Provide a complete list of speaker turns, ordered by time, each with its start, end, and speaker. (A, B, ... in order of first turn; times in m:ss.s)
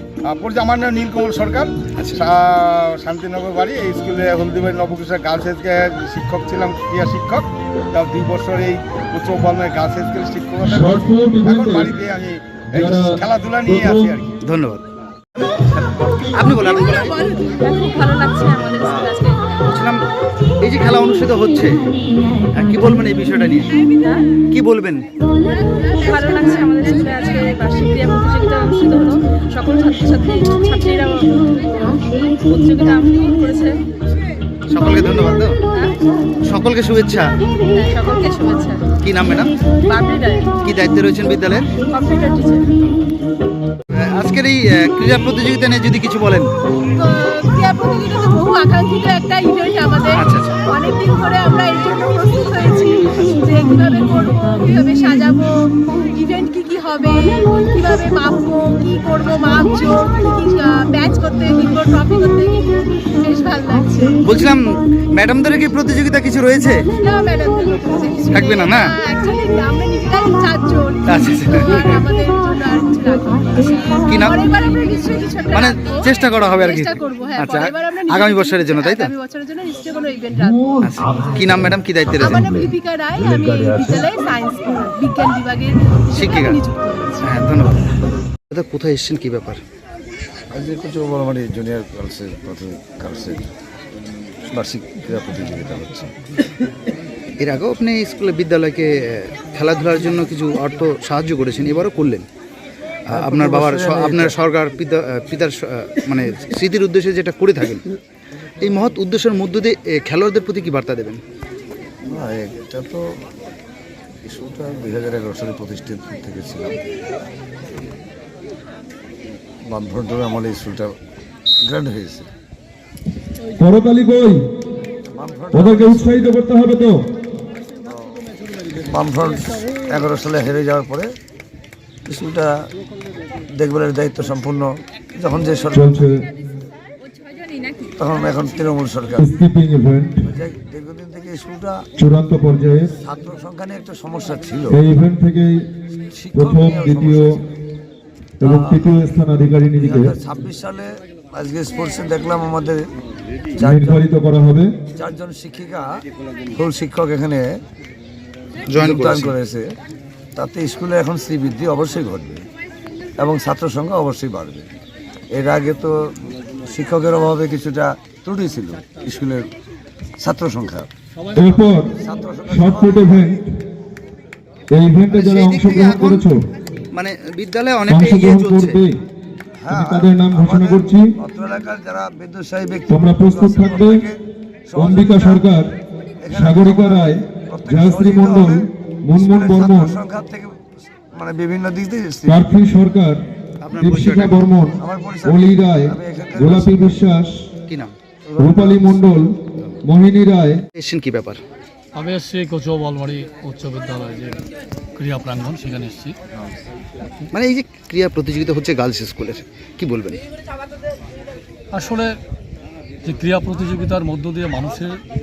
0:00.3-0:10.9 A
0:02.0-0:02.2 B
0:10.6-0:12.0 C
0:11.5-0:14.3 A
0:12.7-0:14.2 C
0:14.4-0:14.8 B
0:15.4-0:17.2 B
0:16.6-0:17.4 D
0:17.4-0:19.4 E
0:18.8-0:19.1 B
0:19.7-0:20.0 B
0:20.6-0:21.8 B
0:22.5-0:23.7 B
0:23.8-0:24.2 E
0:24.5-0:25.0 B
0:25.5-0:27.3 D
0:25.9-0:31.3 E
0:31.9-0:33.7 E
0:34.7-0:35.5 B
0:36.4-0:37.3 B
0:37.7-0:38.9 E
0:39.0-0:39.5 B
0:39.9-0:40.4 E
0:40.6-0:41.7 B
0:41.9-0:42.6 E
0:43.9-0:46.5 B
0:46.9-1:04.2 D
0:50.1-0:50.5 B
1:04.2-1:06.9 B
1:06.9-1:20.8 D
1:08.3-1:08.9 B
1:11.0-1:12.0 B
1:14.0-1:14.5 B
1:15.5-1:19.1 B
1:20.8-1:22.6 B
1:22.0-1:27.2 D
1:22.2-1:24.1 F
1:26.1-1:26.6 B
1:27.2-1:28.0 B
1:28.5-1:29.6 B
1:30.5-1:33.5 F
1:34.5-1:36.1 F
1:37.4-1:42.2 B
1:43.1-1:44.4 F
1:43.1-1:47.8 B
1:48.6-1:51.2 B
1:52.1-1:53.0 F
1:54.2-1:56.8 F
1:59.7-2:00.9 F
2:01.6-2:02.3 F
2:03.6-2:04.4 C
2:05.1-2:06.2 F
2:05.5-2:07.0 C
2:07.8-2:08.2 F
2:08.8-2:11.1 F
2:12.0-2:12.5 F
2:13.5-2:16.1 F
2:15.7-2:16.2 C
2:18.0-2:19.3 F
2:19.2-2:20.3 C
2:20.2-2:21.8 F
2:22.0-2:22.9 C
2:23.0-2:24.8 F
2:24.7-2:25.7 C
2:26.1-2:27.4 F
2:26.3-2:27.4 C
2:28.4-2:29.0 F
2:28.4-2:30.2 C
2:29.7-2:32.8 F
2:33.6-2:34.0 F
2:33.6-2:34.7 C
2:35.0-2:35.9 F
2:36.5-2:37.5 F
2:38.7-2:39.3 B
2:38.8-2:39.7 F
2:40.3-2:42.4 F
2:43.2-2:44.7 F
2:45.3-2:49.4 F
2:50.2-2:50.9 F
2:51.3-2:51.9 C
2:52.0-2:53.3 F
2:52.4-2:53.4 C
2:54.7-2:56.4 C
2:55.1-2:56.3 B
2:56.9-2:58.8 B
2:57.9-2:59.0 C
2:59.6-3:04.2 F
2:59.7-3:01.2 C
3:02.9-3:04.0 C
3:04.7-3:05.5 F
3:04.7-3:05.7 C
3:06.2-3:08.6 F
3:06.3-3:10.0 C
3:09.1-3:10.6 F
3:11.1-3:12.4 F
3:12.2-3:13.2 C
3:13.6-3:14.4 B
3:13.8-3:17.5 C
3:14.8-3:17.0 F
3:17.7-3:17.9 B
3:18.3-3:19.0 F
3:18.4-3:20.6 C
3:20.8-3:21.4 B
3:21.9-3:24.4 G
3:25.0-3:26.2 G
3:27.3-3:30.2 B
3:31.7-3:32.1 G
3:33.0-3:35.0 G